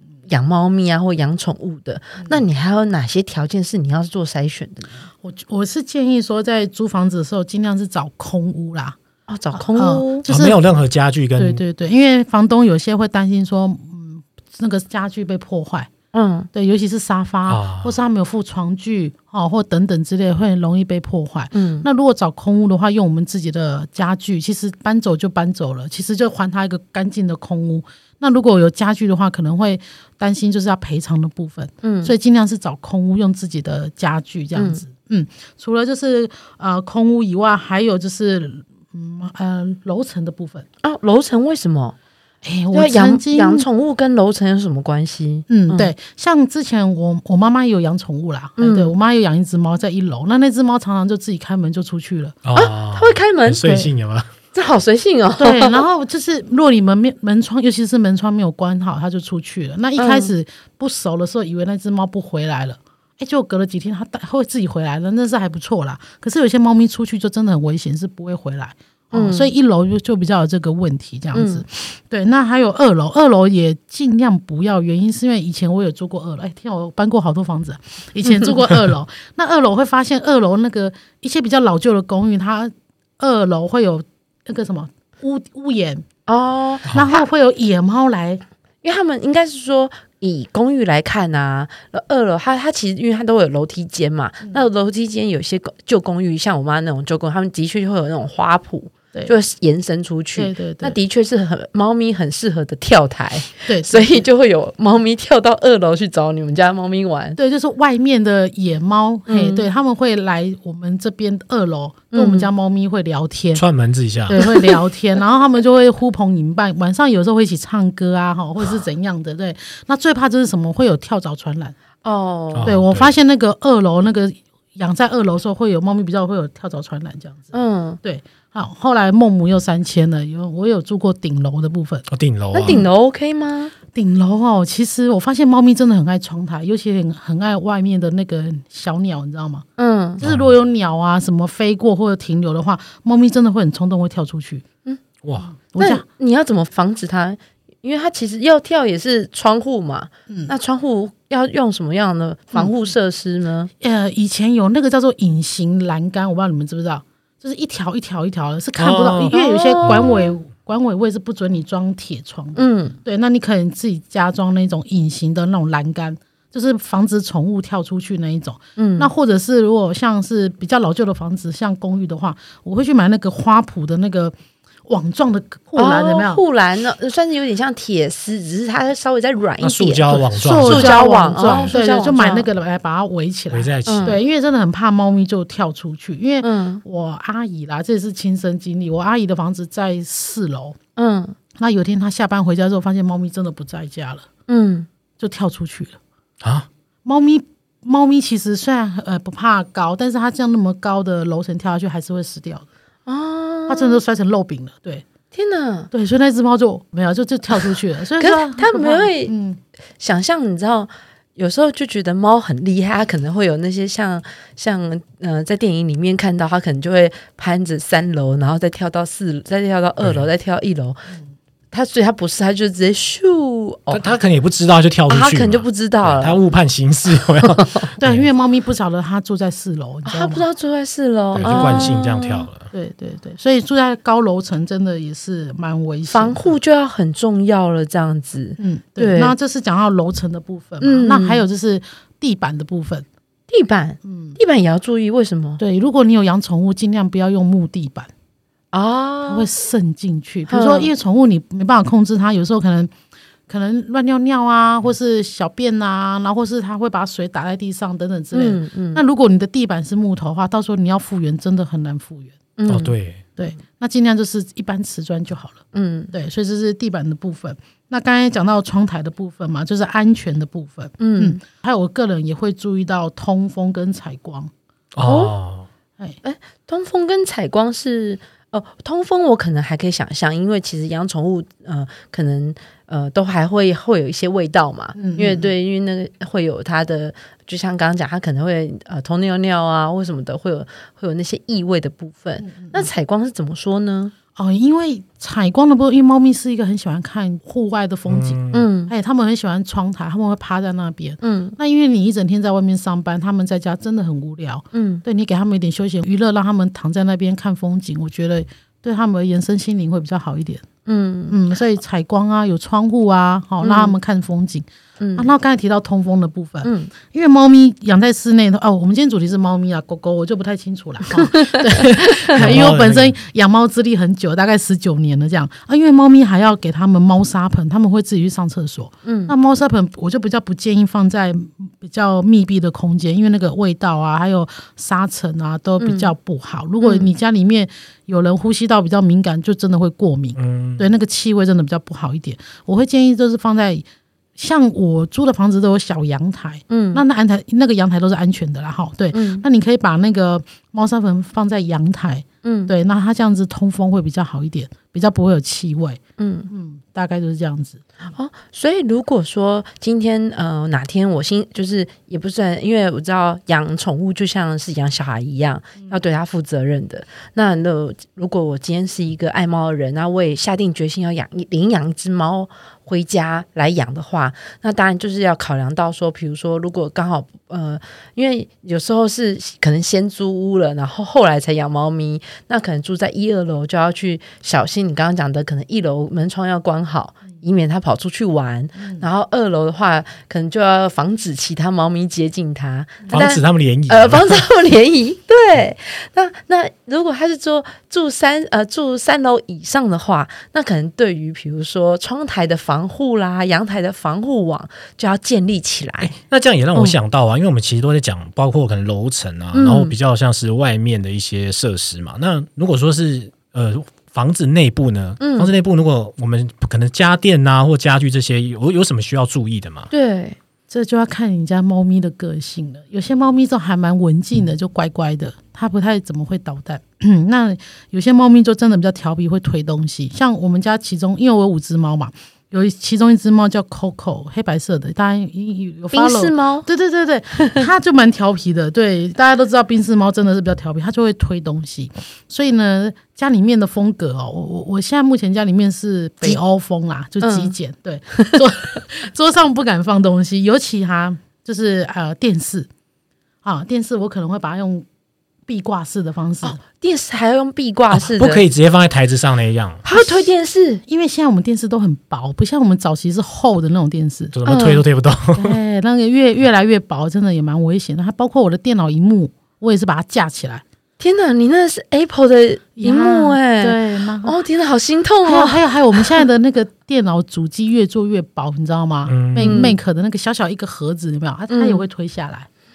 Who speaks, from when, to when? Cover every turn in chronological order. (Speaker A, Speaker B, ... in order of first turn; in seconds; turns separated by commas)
Speaker A: 0.3-5.0, Speaker B: 5.2-9.0, Speaker A: 9.3-10.2, Speaker B: 9.5-10.6, Speaker C: 10.3-11.6, Speaker B: 11.4-15.9, Speaker A: 16.1-16.5, Speaker B: 16.5-40.6, Speaker C: 17.5-18.0, Speaker A: 21.5-21.9, Speaker A: 31.8-32.1, Speaker A: 34.5-34.8, Speaker A: 40.8-42.0, Speaker B: 42.4-43.7, Speaker A: 42.7-45.9, Speaker B: 45.5-52.4, Speaker A: 48.6-48.9, Speaker C: 52.4-54.3, Speaker A: 52.5-53.8, Speaker B: 53.6-53.9, Speaker A: 54.5-55.8, Speaker B: 55.4-86.1, Speaker A: 60.0-60.3, Speaker A: 69.1-69.5, Speaker A: 71.3-71.6, Speaker A: 86.3-87.2, Speaker B: 86.9-88.4, Speaker A: 88.8-107.4, Speaker B: 100.4-101.0, Speaker B: 103.7-104.2, Speaker B: 107.4-113.6, Speaker A: 109.3-109.7, Speaker A: 112.1-112.5, Speaker C: 113.5-114.4, Speaker B: 114.3-121.8, Speaker A: 114.4-114.7, Speaker A: 122.0-122.7, Speaker C: 122.5-123.2, Speaker B: 122.6-132.1, Speaker A: 127.5-128.0, Speaker C: 132.1-132.8, Speaker A: 132.5-133.7, Speaker B: 133.9-139.7, Speaker A: 139.8-140.2, Speaker B: 140.2-144.7, Speaker C: 140.2-140.5, Speaker C: 145.2-145.5, Speaker B: 145.6-146.0, Speaker A: 145.8-153.7, Speaker B: 153.8-174.3, Speaker C: 158.8-160.1, Speaker A: 159.3-160.3, Speaker A: 162.6-163.0, Speaker A: 168.8-169.1, Speaker B: 174.9-176.4, Speaker A: 175.8-182.5, Speaker C: 179.6-181.7, Speaker B: 180.2-190.8, Speaker C: 183.5-184.2, Speaker A: 183.9-184.2, Speaker A: 186.4-186.8, Speaker A: 191.0-191.4, Speaker B: 191.6-194.3, Speaker A: 194.5-194.9, Speaker B: 195.2-196.0, Speaker C: 196.4-196.7, Speaker B: 197.1-202.7, Speaker A: 203.1-204.0, Speaker B: 203.7-205.1, Speaker A: 205.3-205.9, Speaker B: 205.9-209.6, Speaker A: 208.2-209.3, Speaker A: 210.0-221.1, Speaker C: 220.0-220.3, Speaker A: 221.7-224.1, Speaker C: 223.9-228.2, Speaker A: 225.1-226.4, Speaker A: 227.4-227.9, Speaker B: 228.0-230.5, Speaker A: 230.1-232.5, Speaker C: 231.3-232.7, Speaker B: 231.4-232.0, Speaker B: 232.7-236.5, Speaker A: 236.1-239.3, Speaker B: 238.6-243.1, Speaker A: 240.8-241.4, Speaker A: 243.5-245.6, Speaker B: 244.1-244.4, Speaker B: 245.6-248.1, Speaker A: 248.7-249.5, Speaker B: 249.3-252.9, Speaker A: 250.5-250.9, Speaker B: 253.5-262.4, Speaker A: 258.3-259.0, Speaker A: 262.6-262.9, Speaker C: 262.7-263.2, Speaker B: 263.4-274.5, Speaker A: 265.7-266.1, Speaker A: 271.0-271.4, Speaker C: 274.9-275.7, Speaker A: 275.0-275.4, Speaker A: 276.2-294.1, Speaker B: 284.9-285.5, Speaker B: 292.4-292.9, Speaker B: 294.4-310.6, Speaker C: 298.1-298.7, Speaker A: 298.5-298.9, Speaker A: 301.2-301.6, Speaker A: 304.7-305.0, Speaker A: 310.9-311.4, Speaker B: 311.3-343.9, Speaker A: 313.6-314.0, Speaker A: 315.0-315.3, Speaker A: 316.6-316.9, Speaker A: 321.1-322.6, Speaker C: 322.3-323.2, Speaker A: 329.1-329.3, Speaker A: 335.8-336.1, Speaker A: 336.8-337.1, Speaker C: 340.4-340.9, Speaker B: 344.4-357.9, Speaker A: 346.7-347.0, Speaker A: 349.1-349.4, Speaker A: 352.4-352.7, Speaker A: 356.2-356.5, Speaker A: 358.1-406.1, Speaker B: 388.8-389.1, Speaker C: 393.1-394.5, Speaker C: 406.0-419.9, Speaker A: 409.5-409.9, Speaker A: 415.2-415.5, Speaker A: 419.9-420.4, Speaker B: 420.7-452.7, Speaker A: 435.9-436.7, Speaker A: 437.4-437.6, Speaker A: 447.2-447.5, Speaker A: 448.1-448.4, Speaker B: 453.4-454.9, Speaker B: 455.5-456.6, Speaker A: 456.4-458.4, Speaker C: 457.9-459.8, Speaker A: 459.8-460.8, Speaker B: 459.9-460.3, Speaker B: 460.9-464.4, Speaker C: 464.3-465.6, Speaker A: 464.5-464.8, Speaker B: 465.4-470.6, Speaker A: 471.0-476.1, Speaker B: 472.8-474.4, Speaker B: 475.2-482.5, Speaker C: 479.1-479.6, Speaker A: 479.4-479.8, Speaker A: 481.5-481.8